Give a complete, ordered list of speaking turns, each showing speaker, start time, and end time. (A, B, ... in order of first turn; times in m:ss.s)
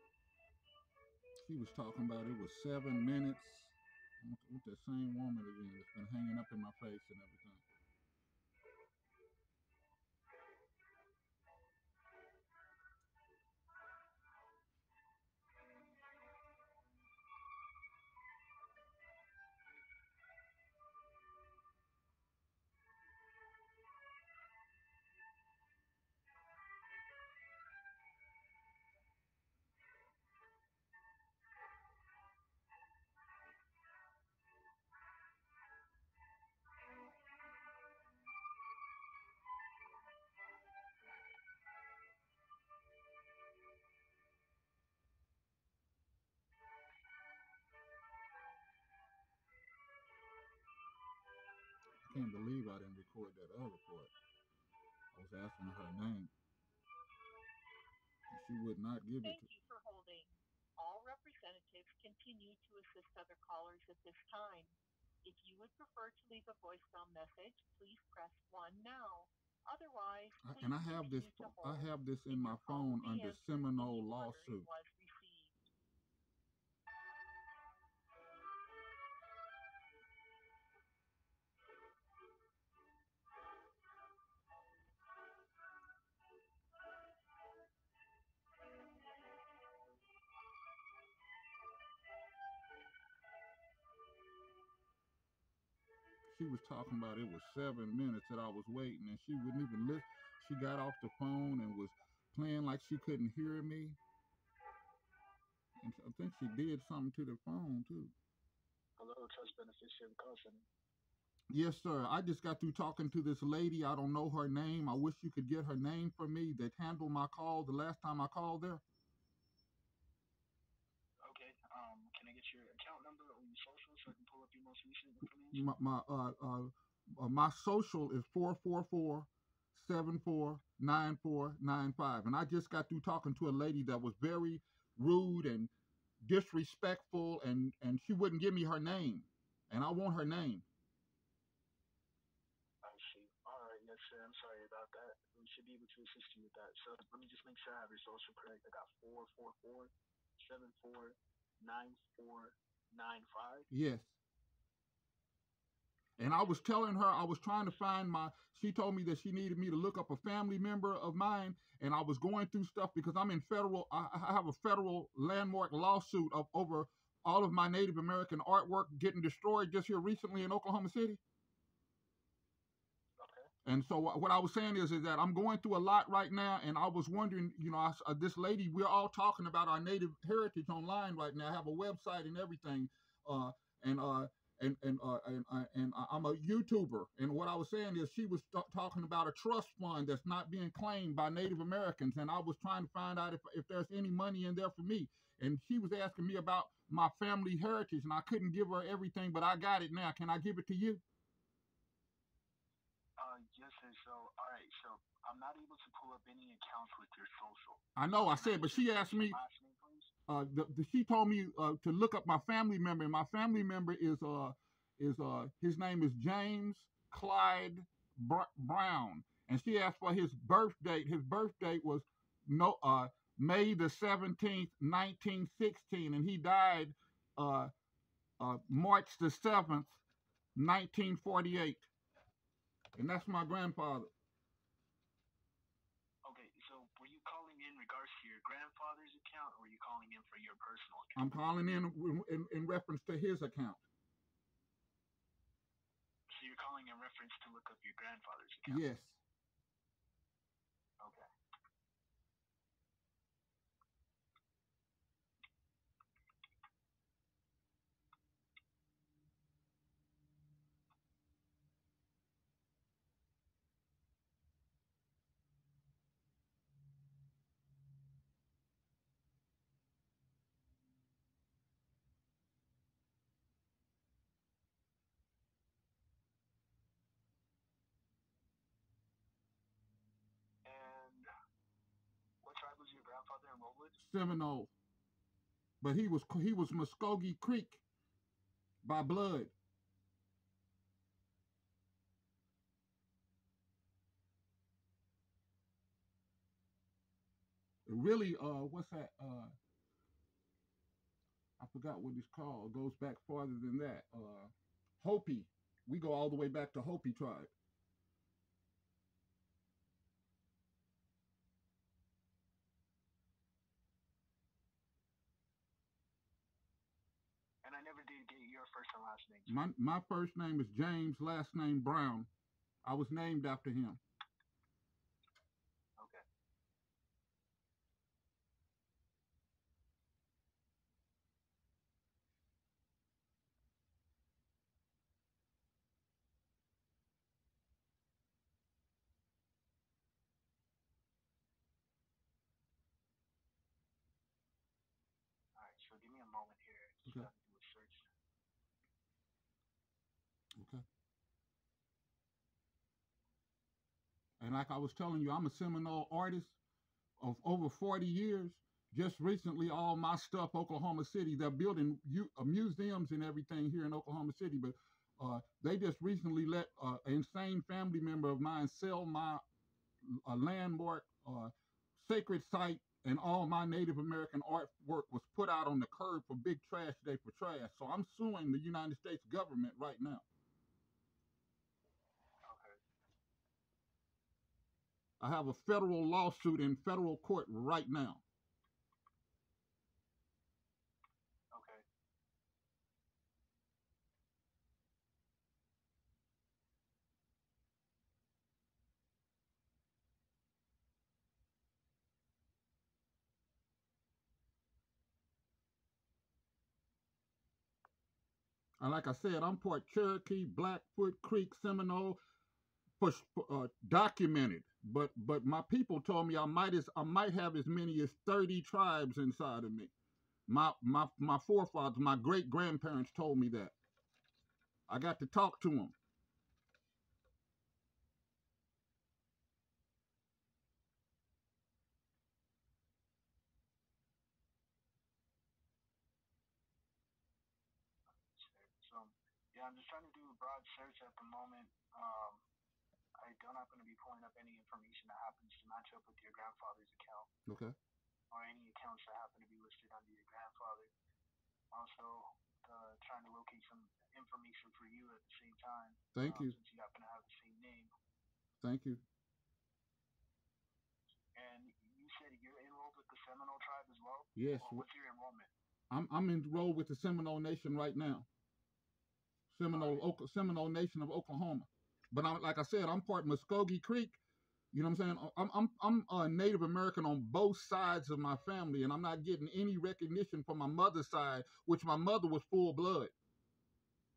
0:01.4-0:07.6 A
0:52.0-0:54.1 A
0:55.1-0:56.3 A
0:58.3-0:59.4 A
0:59.2-1:15.6 B
1:10.4-1:14.7 A
1:36.3-1:44.0 A
1:45.8-1:48.1 A
1:49.0-1:50.6 C
1:51.5-1:58.8 A
2:01.2-2:05.6 C
2:05.5-2:15.7 A
2:16.2-2:20.6 A
2:22.8-2:33.7 C
2:33.7-2:34.1 A
2:36.2-2:51.2 A
2:36.2-2:37.8 C
2:53.2-2:53.5 C
2:53.6-3:21.0 A
3:23.2-3:30.1 C
3:28.0-3:29.4 A
3:30.3-3:47.7 A
3:48.4-3:50.0 A
3:50.6-3:51.9 A
3:53.0-3:54.1 A
3:56.2-4:01.2 C
4:01.2-4:03.8 A
4:06.3-4:08.8 C
4:08.6-4:09.2 A
4:11.0-4:11.2 C
4:40.6-4:41.3 C
4:42.4-4:44.0 C
4:44.0-4:44.7 A
4:45.8-4:47.8 A
4:48.8-4:49.5 A
4:57.9-4:59.5 A
5:01.6-5:07.5 A
5:17.6-5:19.6 C
5:19.5-5:22.3 A
5:22.8-5:24.0 A
5:26.0-5:26.2 C
5:45.6-5:48.0 C
5:50.6-5:50.8 A
5:54.4-5:56.6 A
5:57.2-6:09.4 A
6:10.0-6:20.2 A
6:22.4-6:22.8 C
6:25.2-6:28.2 A
6:31.5-6:31.8 C
6:48.8-6:52.2 A
6:53.0-6:59.9 A
7:00.5-7:03.7 A
7:04.9-7:05.9 A
7:18.2-7:22.4 C
7:23.2-7:27.3 C
7:27.5-7:27.8 A
7:28.3-7:30.9 C
7:31.7-7:37.9 C
7:36.1-7:36.5 A
7:38.6-7:39.0 A
7:41.3-7:45.5 C
7:44.4-7:44.8 A
7:45.9-7:48.3 A
7:49.5-7:54.2 A
7:49.7-7:50.1 C
7:54.7-8:03.1 A